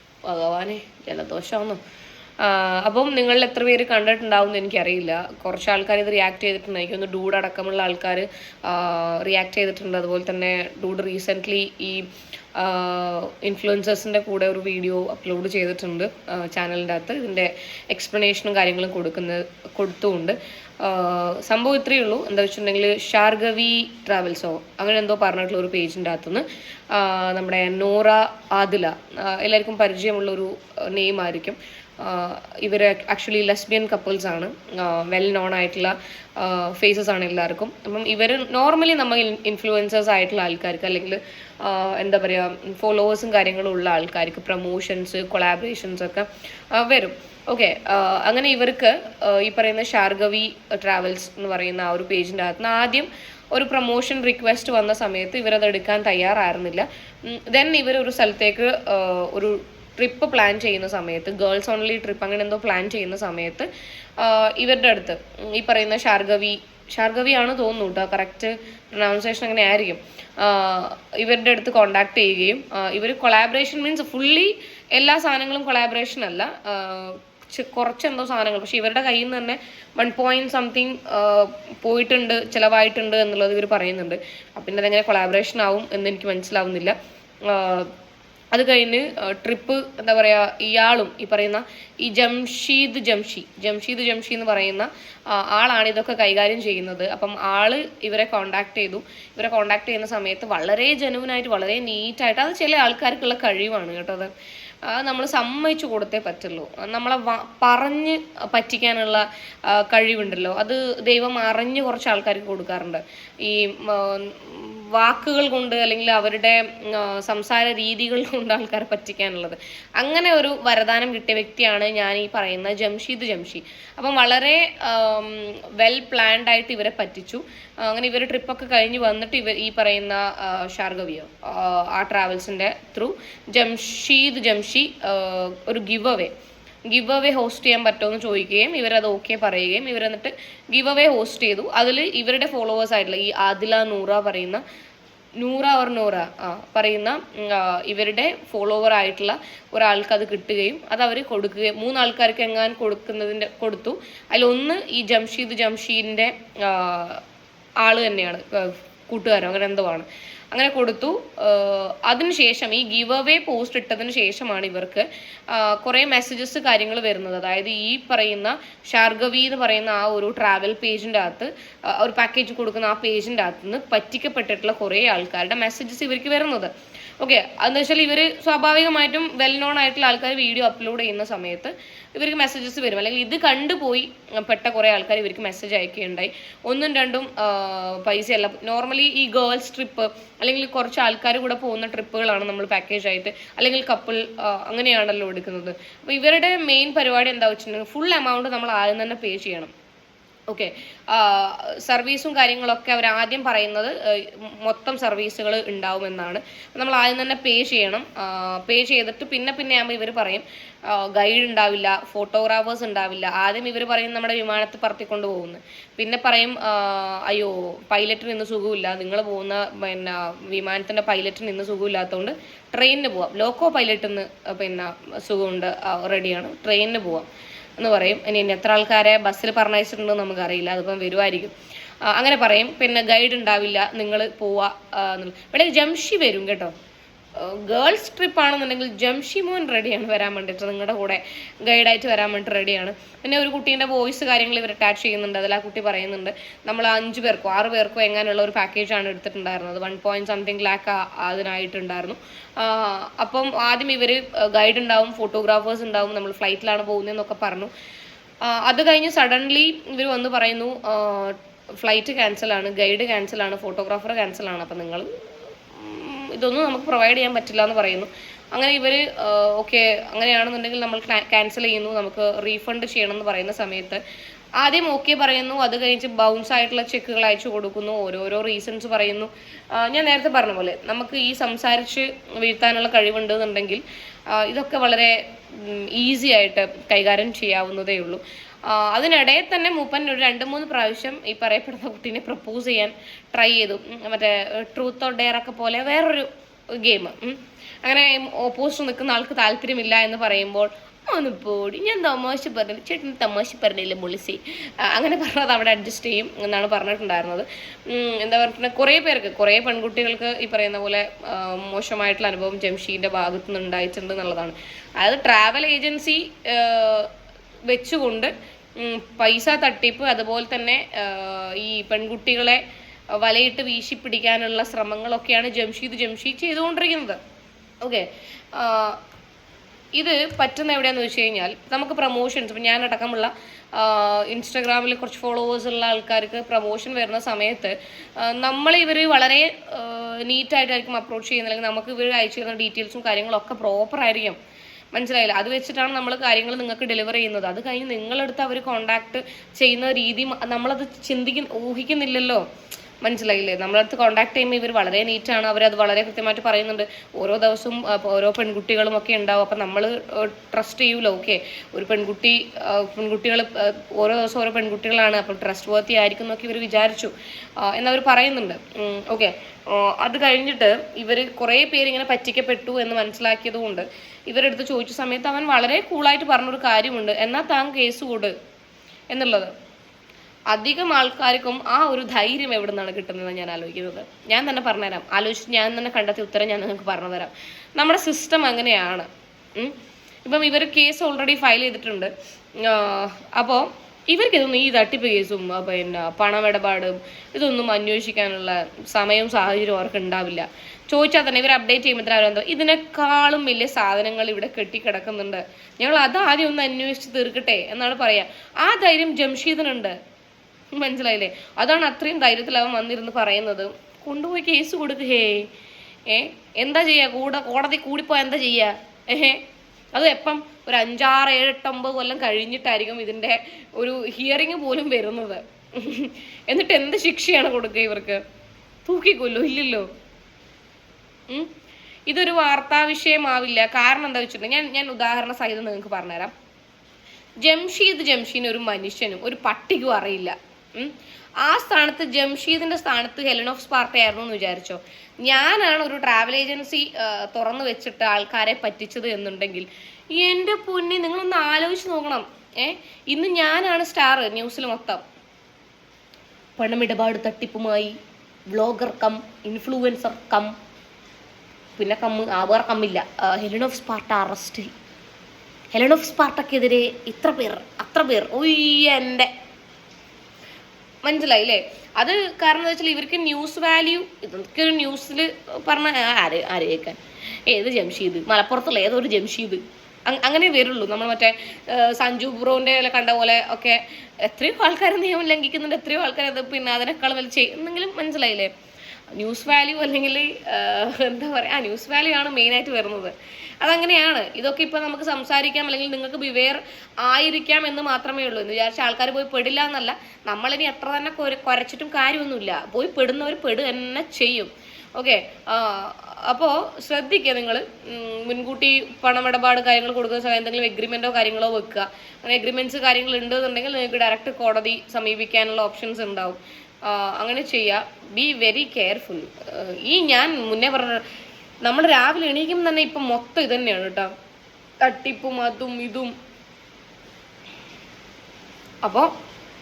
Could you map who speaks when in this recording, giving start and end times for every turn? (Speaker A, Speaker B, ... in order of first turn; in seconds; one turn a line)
Speaker A: 0.2-1.8
Speaker A: 2.4-87.9
Speaker A: 88.5-104.3
Speaker A: 104.8-136.3
Speaker A: 136.9-144.6
Speaker A: 145.4-157.2
Speaker A: 157.8-199.7
Speaker A: 200.5-231.5
Speaker A: 232.0-236.7
Speaker A: 237.3-257.7
Speaker A: 258.4-265.1
Speaker A: 265.7-274.0
Speaker A: 274.6-317.1
Speaker A: 317.7-322.6
Speaker A: 323.2-327.2
Speaker A: 327.8-329.0
Speaker A: 329.9-344.4
Speaker A: 344.9-352.4
Speaker A: 353.0-378.3
Speaker A: 379.1-379.5
Speaker A: 380.5-409.9
Speaker A: 410.7-415.5
Speaker A: 416.1-419.4
Speaker A: 419.9-428.2
Speaker A: 428.8-429.9
Speaker A: 432.1-436.3
Speaker A: 437.4-455.0
Speaker A: 456.6-457.9
Speaker A: 458.5-460.5
Speaker A: 461.8-464.7
Speaker A: 465.7-469.3
Speaker A: 471.0-488.5
Speaker A: 489.1-521.0
Speaker A: 521.6-524.1
Speaker A: 524.8-526.1
Speaker A: 528.8-529.1